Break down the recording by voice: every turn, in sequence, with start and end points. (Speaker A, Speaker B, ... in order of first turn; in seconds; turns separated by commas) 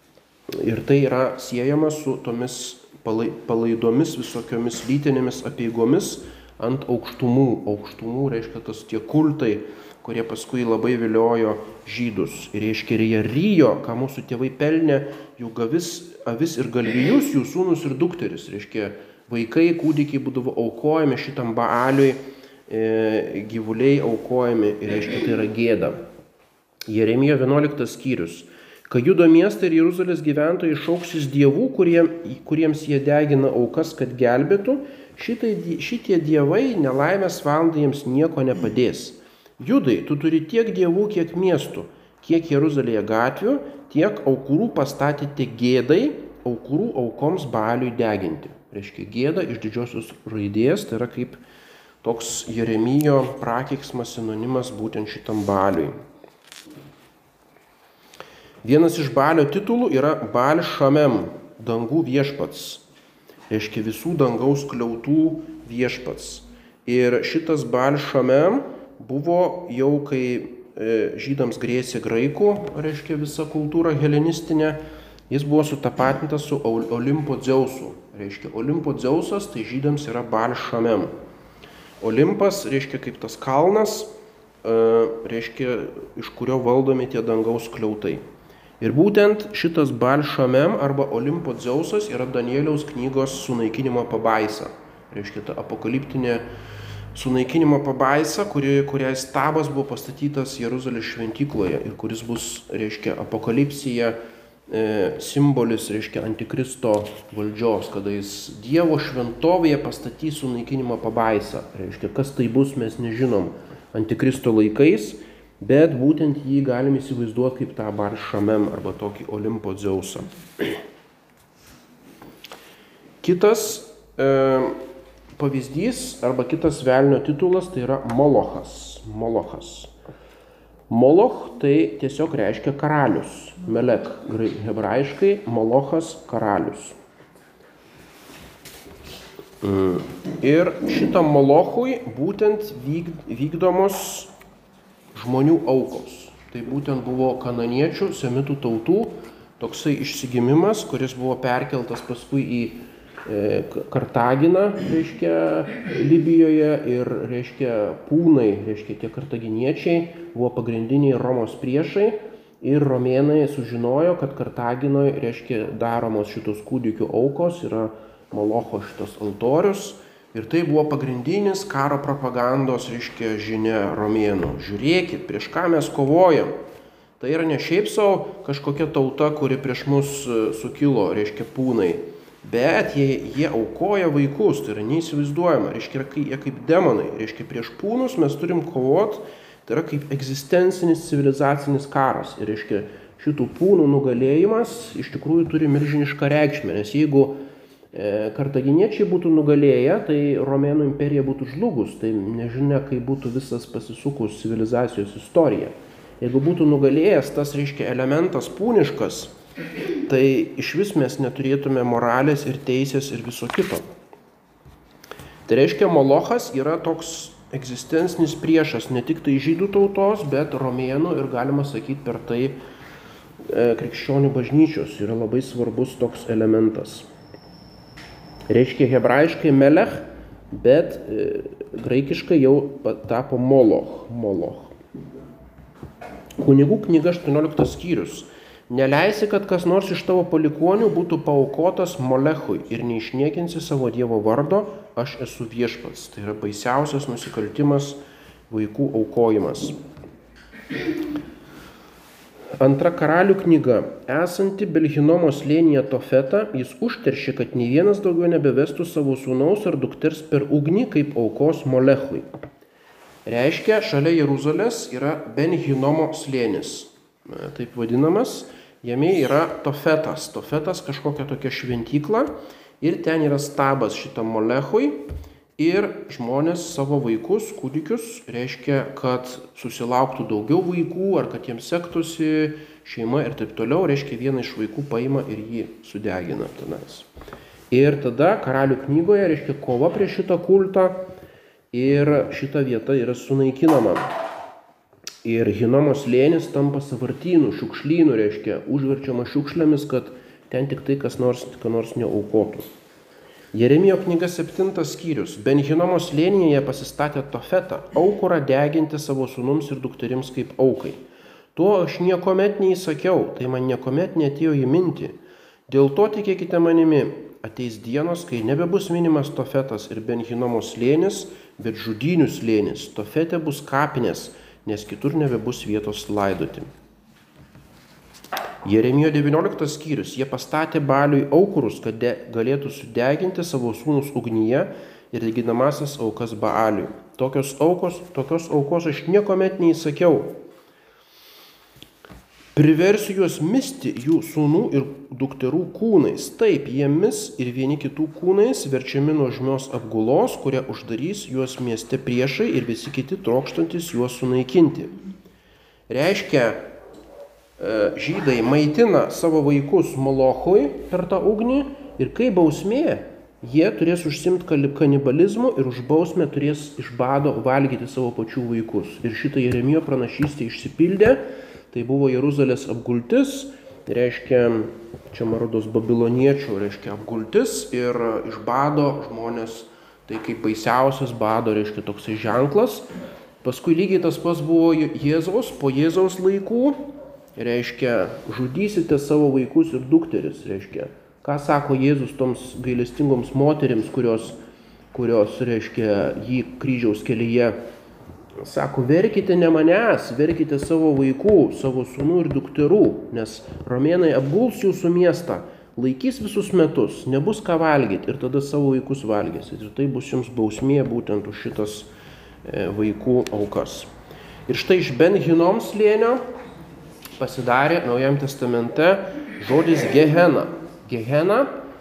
Speaker A: 0.5-26.0, Speaker A: 26.9-51.4, Speaker A: 52.0-55.9, Speaker A: 58.6-62.8, Speaker A: 63.5-81.1, Speaker A: 82.0-84.1, Speaker A: 84.6-88.2, Speaker A: 88.8-96.4, Speaker A: 97.1-104.2, Speaker A: 104.7-120.8, Speaker A: 123.2-124.8, Speaker A: 125.4-129.9, Speaker A: 130.9-136.9, Speaker A: 139.6-144.3, Speaker A: 145.1-176.5, Speaker A: 177.2-197.4, Speaker A: 197.9-209.3, Speaker A: 210.0-213.8, Speaker A: 215.5-222.6, Speaker A: 223.4-227.1, Speaker A: 228.5-234.7, Speaker A: 236.4-249.8, Speaker A: 252.6-262.2, Speaker A: 263.2-272.3, Speaker A: 272.8-275.0, Speaker A: 275.6-287.1, Speaker A: 287.7-291.0, Speaker A: 291.7-294.1, Speaker A: 295.2-302.7, Speaker A: 303.5-311.0, Speaker A: 311.5-315.1, Speaker A: 315.7-326.7, Speaker A: 328.6-340.3, Speaker A: 342.5-354.9, Speaker A: 355.9-356.6, Speaker A: 357.6-382.9, Speaker A: 383.4-394.4, Speaker A: 394.9-397.6, Speaker A: 398.4-411.9, Speaker A: 412.4-413.9, Speaker A: 414.5-416.2, Speaker A: 417.2-421.5